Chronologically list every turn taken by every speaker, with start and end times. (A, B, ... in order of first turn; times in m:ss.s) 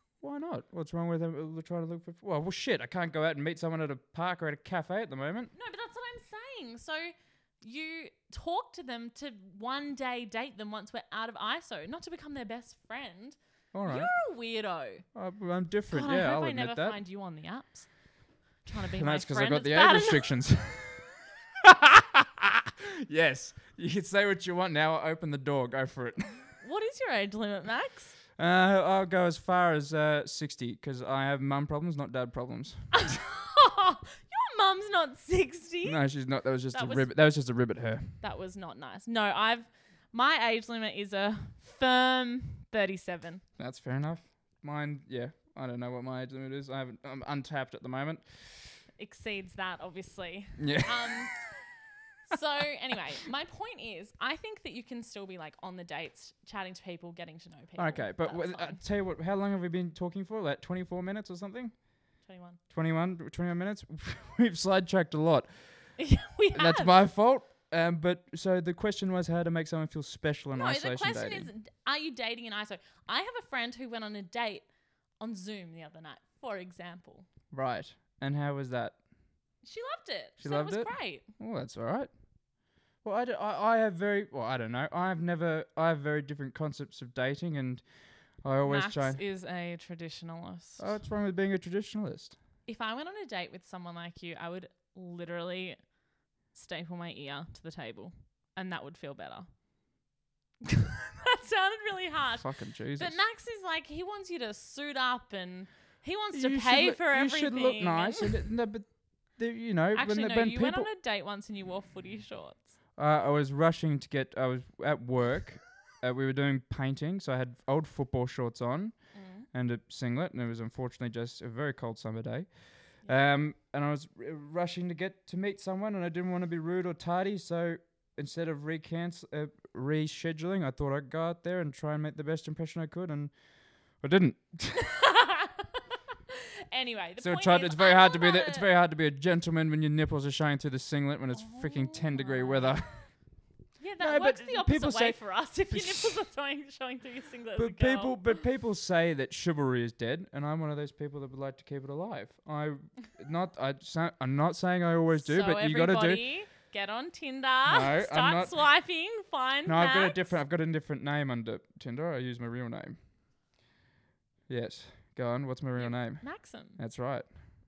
0:00.2-0:05.5 A
0:05.5-0:15.0 B
0:13.7-0:14.1 A
0:15.1-0:17.0 A
0:15.9-0:20.3 B
0:18.9-0:21.1 A
0:21.6-0:26.5 A
0:26.6-0:28.1 B
0:28.4-0:32.9 A
0:32.9-0:36.0 B
0:35.8-0:38.2 A
0:36.7-0:37.1 B
0:38.2-0:43.4 B
0:43.6-0:48.8 A
0:49.0-0:51.5 B
0:50.6-0:51.2 A
0:52.3-0:58.8 B
0:57.8-1:01.8 A
1:02.2-1:02.6 B
1:02.7-1:05.9 A
1:06.0-1:06.9 B
1:06.5-1:11.5 A
1:10.5-1:14.6 B
1:15.2-1:17.3 B
1:17.5-1:19.0 A
1:19.6-1:21.3 B
1:20.4-1:22.1 A
1:23.0-1:27.8 A
1:28.4-1:29.2 A
1:28.6-1:30.9 B
1:30.8-1:32.4 A
1:32.6-1:35.8 B
1:36.5-1:39.5 B
1:40.6-1:48.3 B
1:42.4-1:43.2 A
1:46.3-1:50.9 A
1:49.9-1:52.7 B
1:53.0-2:13.3 A
1:59.1-1:59.5 B
2:14.0-2:14.9 A
2:14.8-2:15.7 B
2:16.7-2:18.7 B
2:17.2-2:23.1 A
2:21.3-2:23.1 B
2:23.8-2:28.2 B
2:24.0-2:26.2 A
2:27.6-2:36.2 A
2:35.1-2:40.3 B
2:37.7-2:38.6 A
2:39.6-2:43.0 A
2:44.5-2:47.2 A
2:45.8-2:46.8 B